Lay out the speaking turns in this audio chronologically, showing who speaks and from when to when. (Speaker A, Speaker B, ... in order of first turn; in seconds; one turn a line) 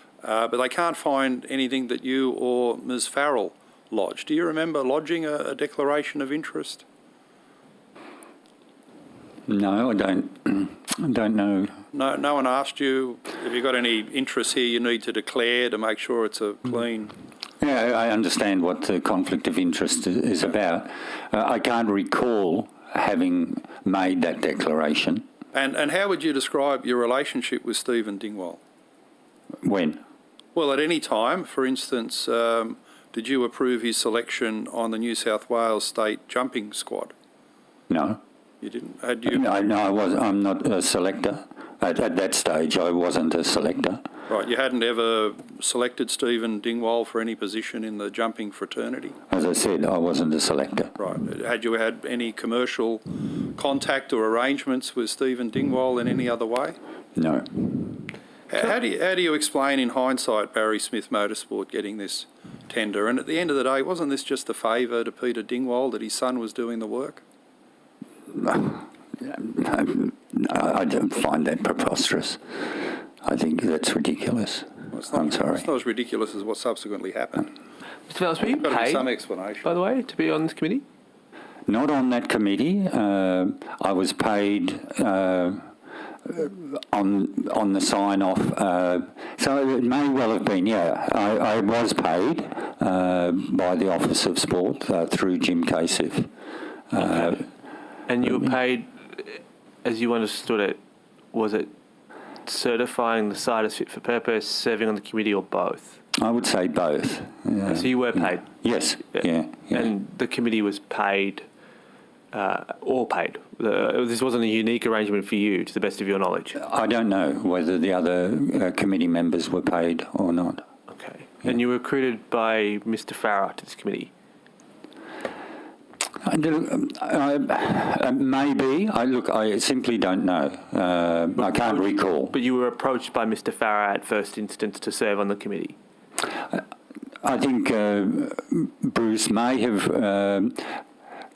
Speaker A: 0.2-6.8
Speaker B: 9.5-11.8
Speaker A: 11.9-17.1
Speaker B: 17.6-25.2
Speaker A: 25.5-28.6
Speaker B: 29.6-30.0
Speaker A: 30.6-37.1
Speaker B: 37.9-38.2
Speaker A: 38.6-39.4
Speaker B: 39.3-44.0
Speaker A: 44.3-49.2
Speaker B: 49.3-51.0
Speaker A: 51.0-56.8
Speaker B: 57.2-58.0
Speaker A: 58.5-67.2
Speaker B: 68.3-75.7
Speaker A: 74.9-77.5
Speaker C: 78.1-79.1
Speaker A: 78.5-79.7
Speaker C: 79.6-80.8
Speaker B: 81.7-85.7
Speaker B: 86.2-96.3
Speaker B: 96.9-97.4
Speaker C: 97.0-97.4
Speaker C: 98.1-100.8
Speaker C: 101.3-101.7
Speaker C: 102.5-106.0
Speaker B: 106.2-109.9
Speaker C: 107.7-108.5
Speaker C: 109.7-111.5
Speaker C: 112.3-116.6
Speaker B: 116.6-120.6
Speaker C: 120.9-124.1
Speaker B: 126.2-132.3
Speaker C: 131.4-135.8
Speaker B: 137.2-140.8